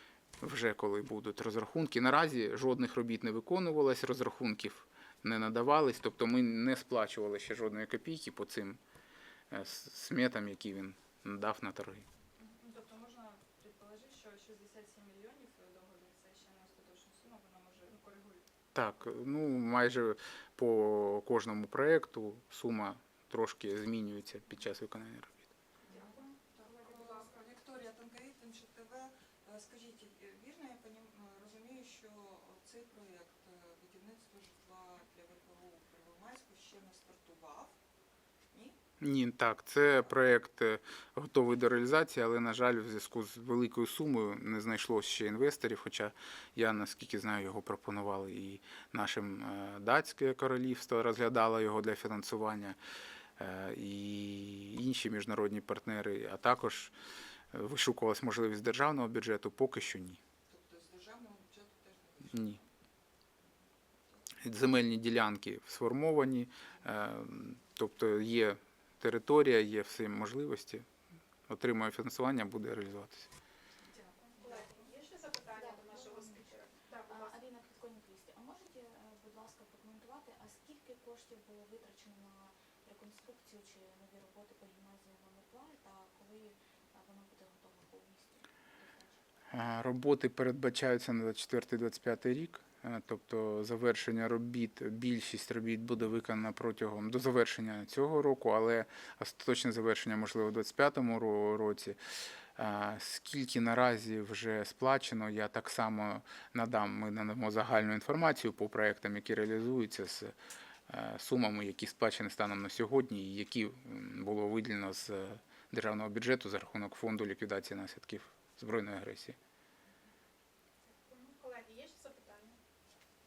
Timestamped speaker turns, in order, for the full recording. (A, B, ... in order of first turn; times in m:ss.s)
0:00.4-0:08.8 A
0:09.5-0:12.0 A
0:12.4-0:18.4 B
0:18.7-0:25.5 A
0:25.8-0:37.8 C
0:25.8-0:27.4 D
0:38.5-0:38.8 C
0:39.0-0:52.8 A
0:53.4-0:56.9 A
0:57.5-1:00.2 A
1:00.5-1:02.7 C
1:02.3-1:02.6 A
1:03.4-1:04.3 C
1:04.4-1:10.8 A
1:11.5-1:13.3 A
1:14.3-1:17.4 D
1:14.4-1:14.7 E
1:15.5-1:16.5 E
1:17.1-1:29.2 E
1:29.5-1:42.0 A
1:42.6-1:50.4 A
1:50.9-1:59.4 A
2:00.8-2:02.6 D